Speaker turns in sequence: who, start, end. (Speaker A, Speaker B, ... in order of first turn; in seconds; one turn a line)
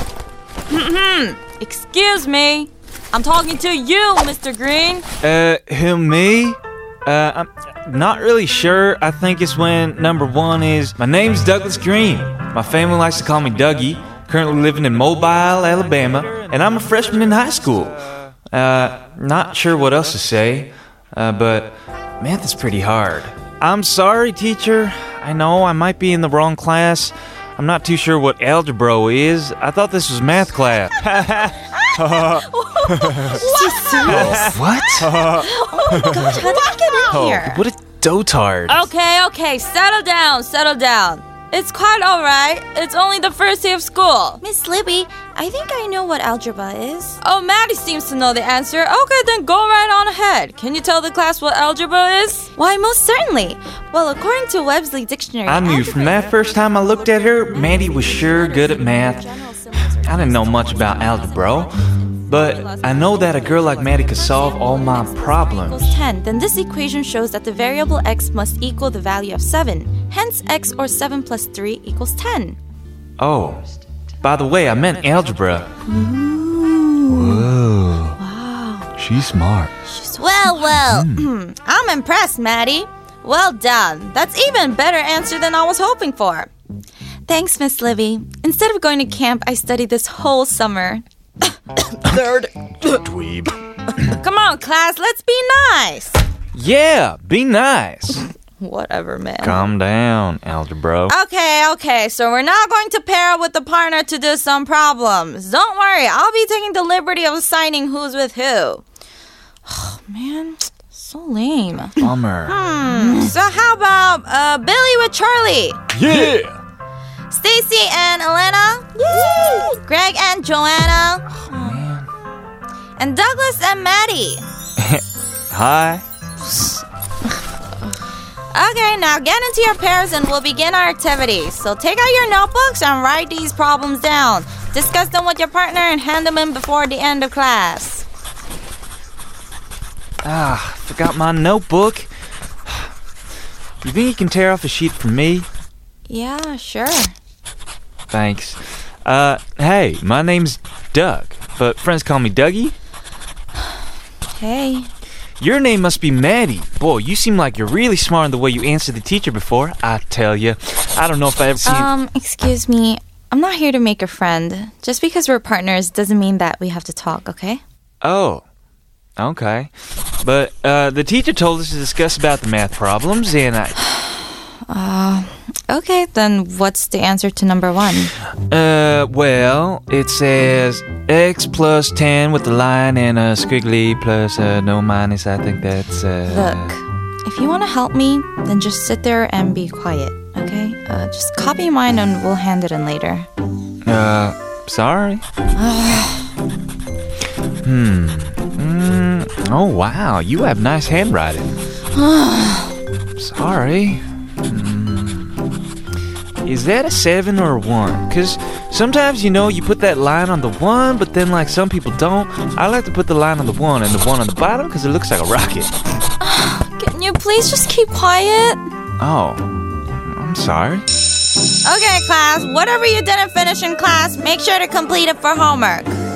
Speaker A: 0.7-5.1
Speaker B: 5.2-38.9
Speaker A: 31.8-37.6
Speaker A: 38.7-61.7
Speaker B: 55.5-59.3
Speaker B: 59.8-66.0
Speaker A: 62.3-72.6
Speaker B: 73.2-73.6
Speaker B: 74.2-75.7
Speaker A: 75.8-77.5
Speaker B: 77.1-78.2
Speaker A: 78.2-78.9
Speaker B: 79.0-79.7
Speaker A: 79.9-86.5
Speaker B: 80.4-81.3
Speaker A: 87.3-92.9
Speaker B: 92.9-94.1
Speaker A: 94.0-96.2
Speaker B: 96.5-98.3
Speaker A: 98.6-99.7
Speaker B: 99.4-101.1
Speaker A: 101.1-108.8
Speaker A: 109.7-115.8
Speaker B: 112.0-112.6
Speaker B: 115.9-116.6
Speaker A: 117.3-121.8
Speaker B: 121.3-122.1
Speaker A: 123.0-124.4
Speaker B: 124.8-126.0
Speaker A: 128.5-138.1
Speaker B: 140.2-142.1
Speaker B: 142.7-142.9
Speaker B: 143.8-145.5
Speaker A: 146.1-147.1
Speaker B: 148.1-152.8
Speaker A: 154.3-154.9
Speaker B: 155.4-161.9
Speaker A: 161.6-167.6
Speaker B: 168.0-168.4
Speaker B: 169.2-173.8
Speaker A: 174.7-178.1
Speaker B: 178.5-186.8
Speaker A: 186.3-193.3
Speaker B: 193.8-195.2
Speaker A: 195.6-196.3
Speaker B: 197.6-201.6
Speaker A: 201.9-202.8
Speaker B: 203.2-205.4
Speaker B: 206.4-215.7
Speaker A: 216.2-218.6
Speaker B: 219.0-220.9
Speaker A: 221.6-225.9